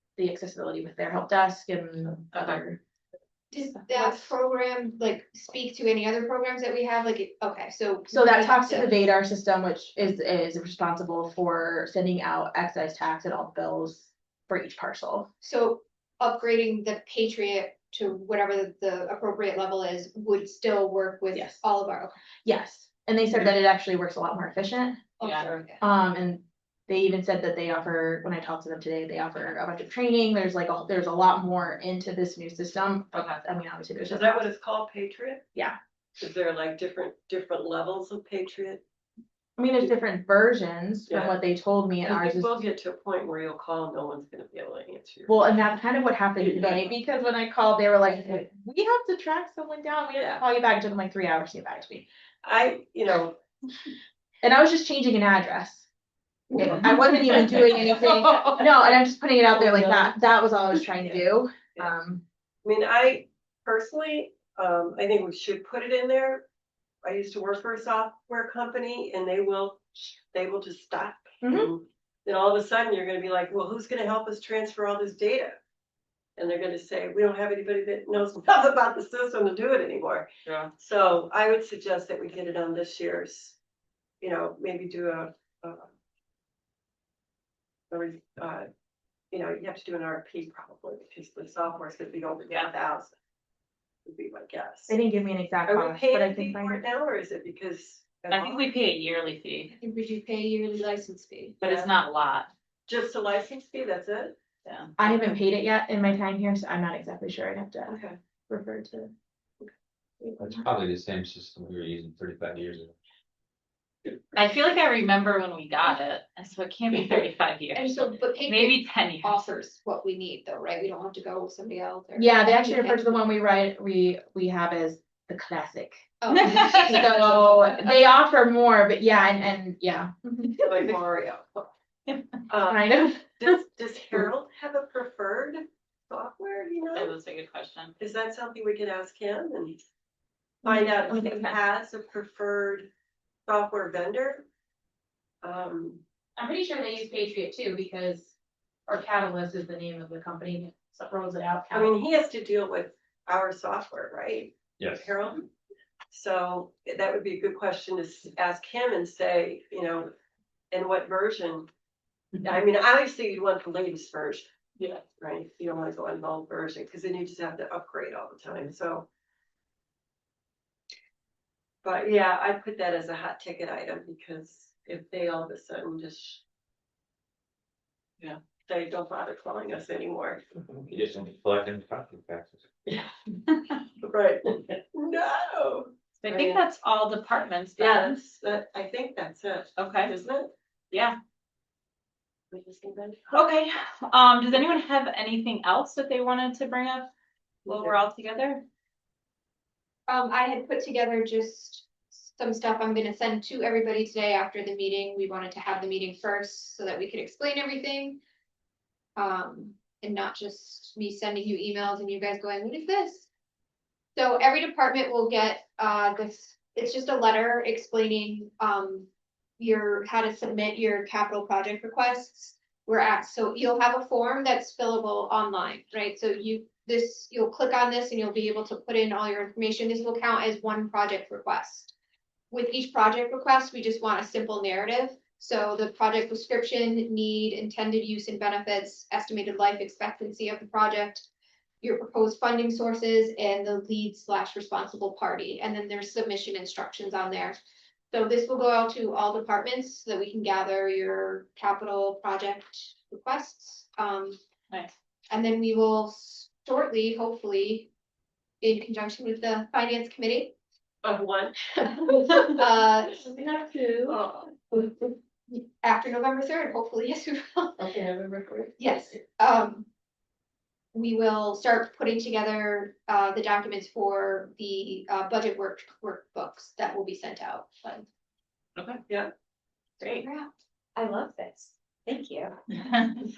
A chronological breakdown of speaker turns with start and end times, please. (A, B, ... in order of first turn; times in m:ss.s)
0:00.2-0:02.8 A
0:02.3-0:02.6 B
0:03.5-0:09.0 C
0:03.7-0:04.3 A
0:08.1-0:15.3 A
0:15.4-0:22.2 C
0:21.3-0:21.6 A
0:22.4-0:25.1 A
0:25.2-0:25.8 C
0:25.2-0:25.5 B
0:25.8-0:34.5 A
0:33.1-0:33.4 B
0:34.0-0:35.4 D
0:36.2-0:38.8 D
0:39.6-0:42.6 A
0:41.1-0:41.3 D
0:42.0-0:45.4 D
0:45.3-0:52.0 A
0:46.4-0:46.8 D
0:52.4-0:53.4 D
0:54.4-0:55.8 A
0:56.5-1:02.2 A
0:56.9-0:58.6 B
0:59.5-1:00.1 D
1:02.6-1:06.4 D
1:07.0-1:15.5 D
1:11.4-1:11.7 A
1:16.4-1:23.6 D
1:24.2-1:25.9 D
1:27.9-1:28.7 D
1:29.3-1:33.1 D
1:34.0-1:35.0 D
1:34.9-1:36.8 A
1:35.6-1:38.7 D
1:38.3-1:39.7 B
1:39.8-1:41.8 C
1:41.6-1:42.5 B
1:42.9-1:44.4 D
1:44.6-1:44.9 B
1:45.0-1:49.1 A
1:47.9-1:48.2 D
1:50.4-1:52.9 E
1:54.3-1:59.4 B
1:57.7-2:03.0 C
2:02.1-2:10.9 A
2:06.2-2:07.8 C
2:06.3-2:07.3 B
2:10.7-2:11.7 D
2:12.5-2:17.1 D
2:12.6-2:13.6 A
2:16.9-2:17.9 B
2:18.0-2:19.8 D
2:20.6-2:22.9 D
2:20.6-2:21.5 A
2:23.5-2:24.4 D
2:25.4-2:26.0 D
2:26.4-2:28.3 A
2:28.9-2:31.9 A
2:31.7-2:35.5 D
2:34.8-2:35.1 E
2:36.1-2:40.1 D
2:40.7-2:41.7 D
2:42.4-2:44.5 D
2:45.2-2:49.0 D
2:51.8-2:56.4 D
2:58.7-3:00.4 D
3:00.7-3:02.6 E
3:04.0-3:06.6 D
3:06.2-3:08.2 B
3:07.8-3:10.5 D
3:09.8-3:10.1 B
3:10.9-3:11.2 B
3:12.5-3:13.2 D
3:13.3-3:17.1 B
3:17.6-3:18.6 B
3:17.7-3:18.0 D
3:20.1-3:28.2 C
3:29.2-3:33.3 C
3:34.2-3:39.1 C
3:39.6-3:51.9 C
3:52.5-4:01.3 C
4:01.8-4:07.6 C
4:08.1-4:14.4 C
4:15.3-4:17.9 C
4:18.6-4:20.5 C
4:21.0-4:21.6 D
4:21.8-4:23.3 C
4:23.2-4:24.1 A
4:24.0-4:24.5 D
4:24.7-4:27.9 C
4:28.8-4:29.9 C
4:30.9-4:38.1 C
4:40.2-4:42.6 F
4:42.8-4:43.1 B